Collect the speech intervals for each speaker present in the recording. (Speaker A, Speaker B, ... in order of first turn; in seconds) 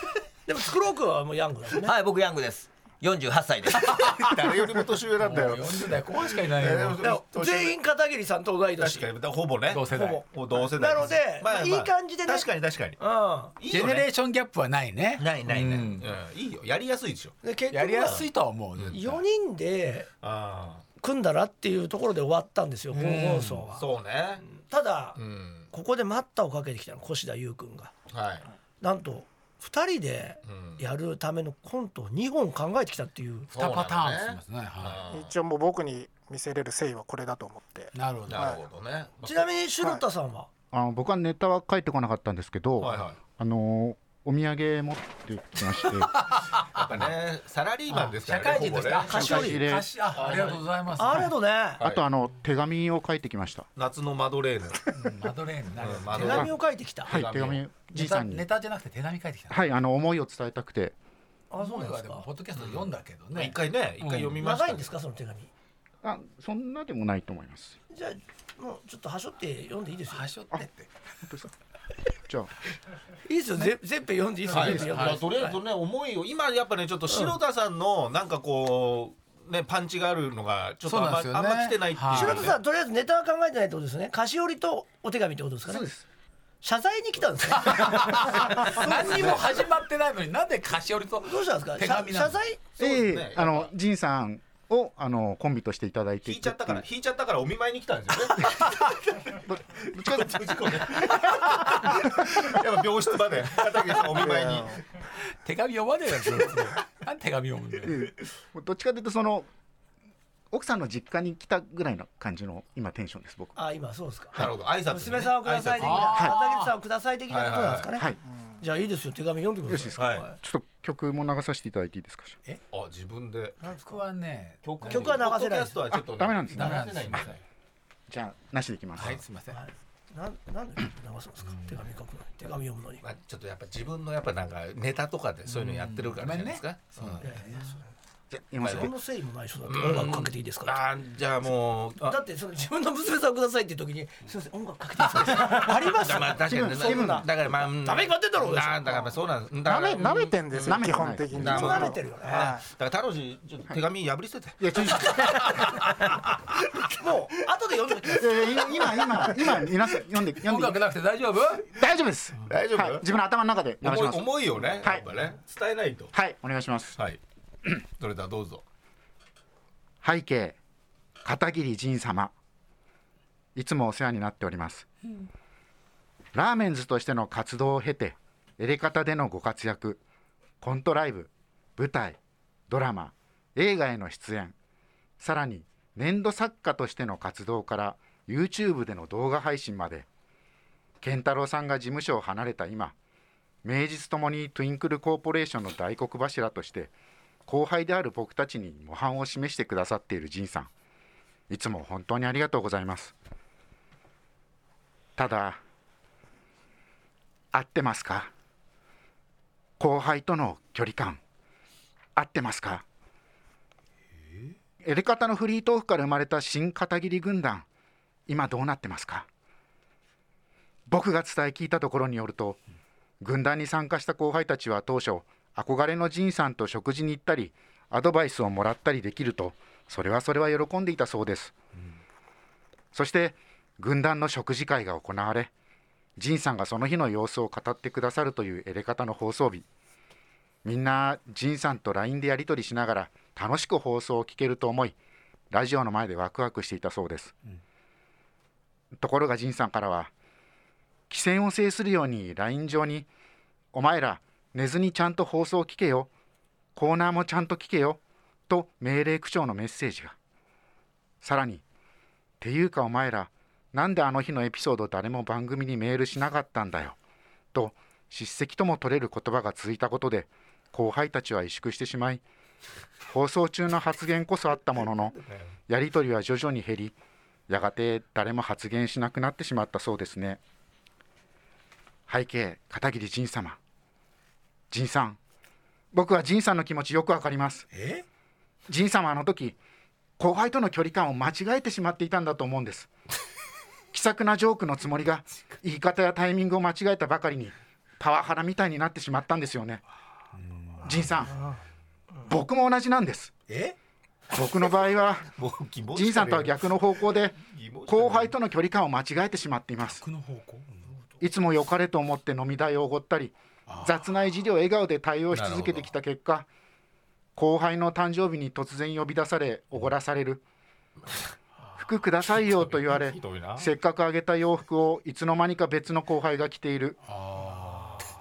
Speaker A: 0.5-1.9, 7.0-9.1, 9.9-13.5, 17.4-18.2, 18.9-20.1, 21.0-23.8, 24.5-25.2, 25.7-27.9, 28.8-33.5, 39.2-40.5, 49.1-49.6, 51.0-51.8, 56.1-57.2, 61.5-62.2, 64.4-65.5, 67.9-70.2, 73.2-75.5, 77.1-77.3, 82.1-85.9, 86.6-89.4, 91.2-92.6, 113.5-118.0, 118.6-120.3, 123.6-124.0, 124.8-125.8, 129.5-133.0, 137.2-137.9, 138.6-140.8, 142.0-147.3, 147.8-149.1, 151.4-152.5, 157.0-159.0
Speaker B: 1.8-4.0
Speaker C: 3.8-7.0, 9.7-10.2, 13.7-16.1, 17.7-19.2, 22.9-23.6, 33.5-35.0, 37.9-38.5, 46.1-47.0, 48.0-51.3, 54.9-56.5, 57.9-59.6, 61.6-64.4, 70.1-70.9, 74.5-75.3, 80.8-82.5, 87.5-92.4, 105.4-108.1, 115.8-116.7, 123.8-125.1, 126.5-127.3, 129.0-129.6, 131.5-131.8, 135.5-137.8, 160.4-161.7, 287.7-288.0, 300.4-301.2, 303.5-303.8, 309.8-310.8, 313.7-313.9, 327.1-328.0
Speaker D: 4.1-7.8, 8.8-13.0, 13.6-14.1, 15.2-17.4, 20.2-20.8, 23.7-24.4, 25.1-25.7, 28.1-28.4, 30.4-30.8, 33.5-35.3, 38.3-39.5, 42.8-43.2, 46.7-49.5, 50.1-50.6, 53.8-54.9, 55.8-56.5, 57.1-57.6, 62.6-64.9, 74.5-82.6, 92.8-93.7, 96.2-104.8, 114.3-116.1, 117.3-117.9, 120.0-120.2, 122.7-123.6, 124.6-127.4, 133.0-137.3, 138.6-138.9, 139.7-142.2, 145.3-150.8, 151.3-155.9, 156.7-157.1, 162.5-163.0, 163.8-166.1, 168.0-168.6, 275.2-275.4, 305.3-306.6, 307.3-308.3, 315.3-315.8, 322.4-323.7
Speaker E: 35.1-38.6, 104.5-104.7, 149.6-152.6
Speaker F: 40.7-46.1, 49.1-49.9, 51.8-53.7, 56.2-56.5, 57.1-58.5, 59.5-60.9, 66.0-67.8, 71.2-71.5, 85.7-86.0, 92.8-96.8, 99.5-100.9, 107.8-109.5, 110.5-113.6, 119.7-122.4, 125.9-127.2, 128.1-129.2, 138.3-138.9, 146.3-147.2, 150.6-151.8, 154.6-155.7, 158.1-160.8, 161.7-165.0, 166.1-167.0, 170.0-170.6, 171.2-172.3, 173.5-174.9, 176.3-180.0, 180.6-182.2, 182.7-184.5, 185.2-190.1, 191.0-192.9, 193.6-196.9, 197.4-200.7, 201.5-203.1, 205.2-205.6, 207.5-208.3, 209.8-211.2, 212.2-212.8, 214.8-217.6, 218.3-219.3, 220.9-222.6, 223.2-231.5, 232.9-235.5, 236.2-239.6, 240.6-244.9, 245.5-247.3, 248.9-250.1, 251.1-253.1, 253.7-256.1, 256.8-260.1, 261.2-261.6, 262.4-266.9, 267.5-272.2, 273.1-276.9, 277.5-280.4, 282.1-283.6, 284.7-285.2, 285.9-287.7, 288.7-289.6, 290.2-292.9, 293.9-299.8, 300.8-301.3, 302.3-303.3, 304.3-305.3, 305.9-310.0, 311.2-316.5, 317.4-320.4, 321.8-327.0